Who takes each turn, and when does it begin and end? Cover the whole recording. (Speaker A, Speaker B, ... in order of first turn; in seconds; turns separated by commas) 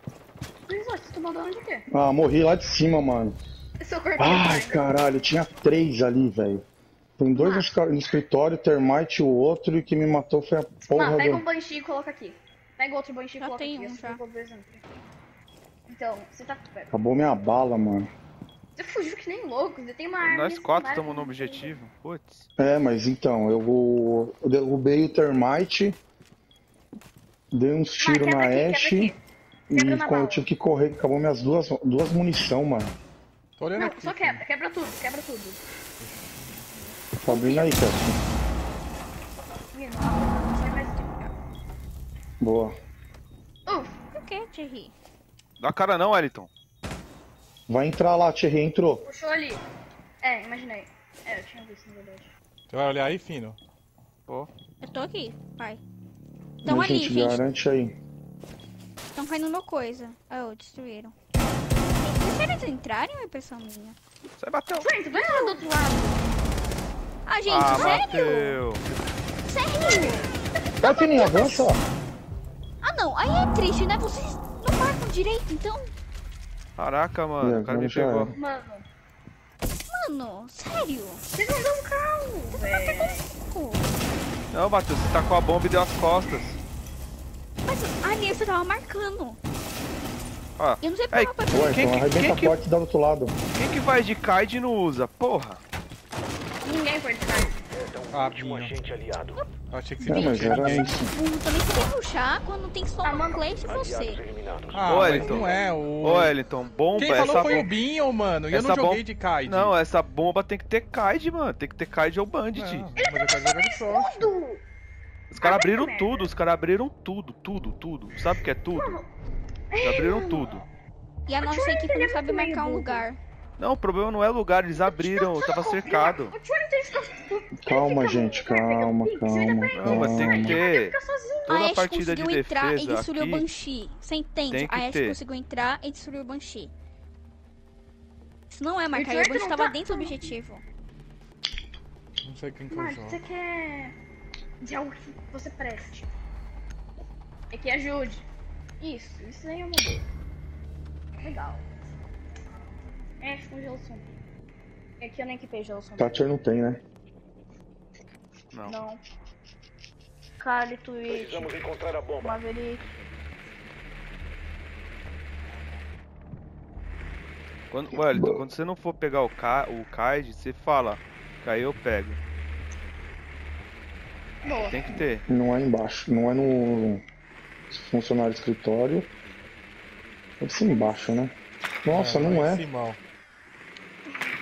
Speaker A: 0.7-1.9, Speaker B: 1.9-3.4, Speaker A: 3.8-4.8, Speaker B: 4.2-6.6, Speaker B: 7.2-11.4, Speaker A: 7.3-7.7, Speaker A: 10.9-14.8, Speaker C: 13.4-14.2, Speaker A: 15.9-16.9, Speaker B: 16.9-18.1, Speaker A: 18.8-21.7, Speaker D: 20.2-22.5, Speaker B: 22.6-26.0, Speaker B: 27.5-29.1, Speaker A: 28.0-29.2, Speaker B: 29.7-32.9, Speaker A: 29.7-30.4, Speaker E: 33.6-34.4, Speaker A: 33.7-35.6, Speaker B: 37.2-38.1, Speaker A: 37.2-37.7, Speaker A: 39.7-41.1, Speaker C: 40.2-41.3, Speaker B: 42.4-42.7, Speaker A: 43.6-44.0, Speaker C: 44.1-44.9, Speaker D: 45.6-46.5, Speaker B: 47.7-49.0, Speaker A: 49.0-49.6, Speaker A: 50.2-52.3, Speaker E: 52.7-53.6, Speaker C: 54.8-55.8, Speaker C: 56.6-57.4, Speaker B: 56.6-57.9, Speaker C: 59.1-61.1, Speaker C: 62.0-64.0, Speaker D: 64.4-64.9, Speaker A: 64.8-66.2, Speaker C: 65.1-65.6, Speaker C: 67.3-68.6, Speaker D: 67.5-68.9, Speaker C: 69.5-71.7, Speaker B: 70.8-71.8, Speaker C: 72.8-75.9, Speaker D: 76.8-78.3, Speaker B: 77.4-78.3, Speaker A: 78.3-78.8, Speaker C: 79.9-81.2, Speaker A: 81.3-83.3, Speaker C: 82.7-83.8, Speaker D: 84.5-86.6, Speaker C: 87.6-89.4, Speaker D: 90.6-92.6, Speaker C: 90.8-91.8, Speaker B: 91.5-93.3, Speaker D: 93.5-95.6, Speaker A: 96.6-97.5, Speaker F: 97.7-99.5, Speaker E: 98.1-98.8, Speaker E: 99.7-101.0, Speaker B: 100.0-101.1, Speaker C: 101.1-104.2, Speaker A: 103.0-103.5, Speaker F: 103.4-105.5, Speaker E: 104.7-106.3, Speaker D: 104.8-107.7, Speaker E: 106.9-109.8, Speaker D: 108.5-112.9, Speaker E: 112.5-114.3, Speaker A: 113.0-114.6, Speaker D: 115.3-119.0, Speaker A: 115.4-116.3, Speaker A: 118.7-119.1, Speaker A: 119.7-120.6, Speaker D: 119.8-120.6, Speaker C: 121.3-123.2, Speaker A: 121.4-123.0, Speaker D: 123.6-126.3, Speaker A: 124.8-131.6, Speaker B: 127.6-130.6, Speaker D: 129.7-130.9, Speaker C: 131.5-136.7, Speaker D: 131.5-133.4, Speaker D: 134.5-135.2, Speaker C: 138.5-140.6, Speaker A: 138.9-140.3, Speaker E: 142.2-143.2, Speaker A: 142.7-143.9, Speaker A: 144.6-146.1, Speaker A: 147.5-148.2, Speaker A: 148.8-150.1, Speaker A: 151.2-151.6, Speaker A: 153.2-154.1, Speaker A: 155.0-156.2, Speaker B: 156.0-156.8, Speaker A: 158.6-159.0, Speaker A: 160.4-161.5, Speaker F: 161.1-162.4, Speaker A: 162.2-162.8, Speaker D: 167.7-172.2, Speaker B: 167.9-168.4, Speaker A: 174.4-174.9, Speaker D: 174.6-175.2, Speaker B: 175.3-177.0, Speaker B: 177.7-179.1, Speaker B: 180.4-182.6, Speaker A: 180.7-180.9, Speaker E: 181.9-183.0